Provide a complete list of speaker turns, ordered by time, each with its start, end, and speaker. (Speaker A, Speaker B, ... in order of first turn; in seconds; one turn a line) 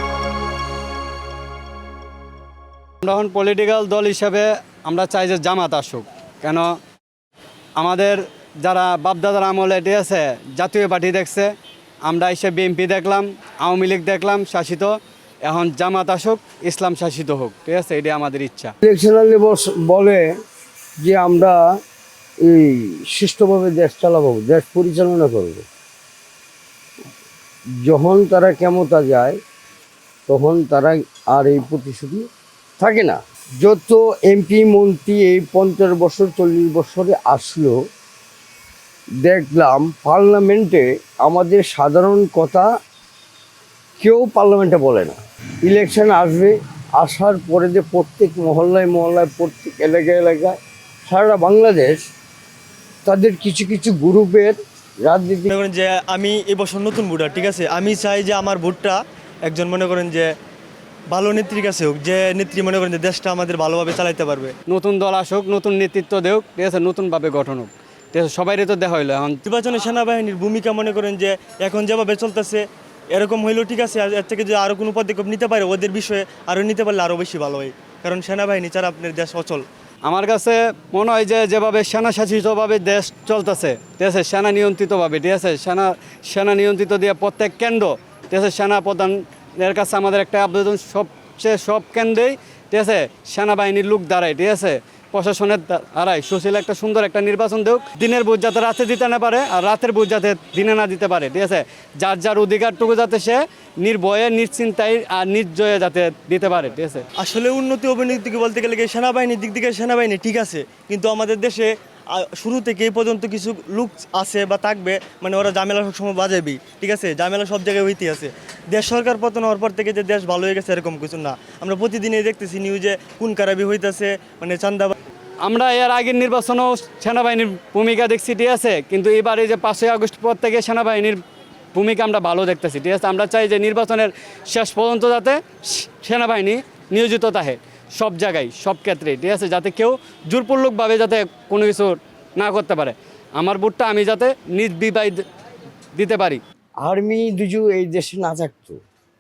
Speaker A: 3.0-6.7
Speaker A: 7.8-11.5
Speaker A: 12.1-18.7
Speaker B: 18.8-20.3
Speaker B: 21.0-21.7
Speaker B: 22.4-25.6
Speaker B: 27.8-29.4
Speaker B: 30.3-32.2
Speaker B: 32.8-37.8
Speaker B: 39.2-42.7
Speaker B: 44.0-50.6
Speaker B: 51.1-52.0
Speaker B: 53.0-55.5
Speaker C: 55.5-60.3
Speaker C: 61.1-64.5
Speaker A: 64.7-69.4
Speaker C: 69.5-79.7
Speaker A: 80.0-107.0
Speaker C: 107.2-125.0
Speaker A: 125.4-131.2
Speaker A: 131.7-145.2
Speaker A: 145.9-146.4
Speaker B: 146.8-148.8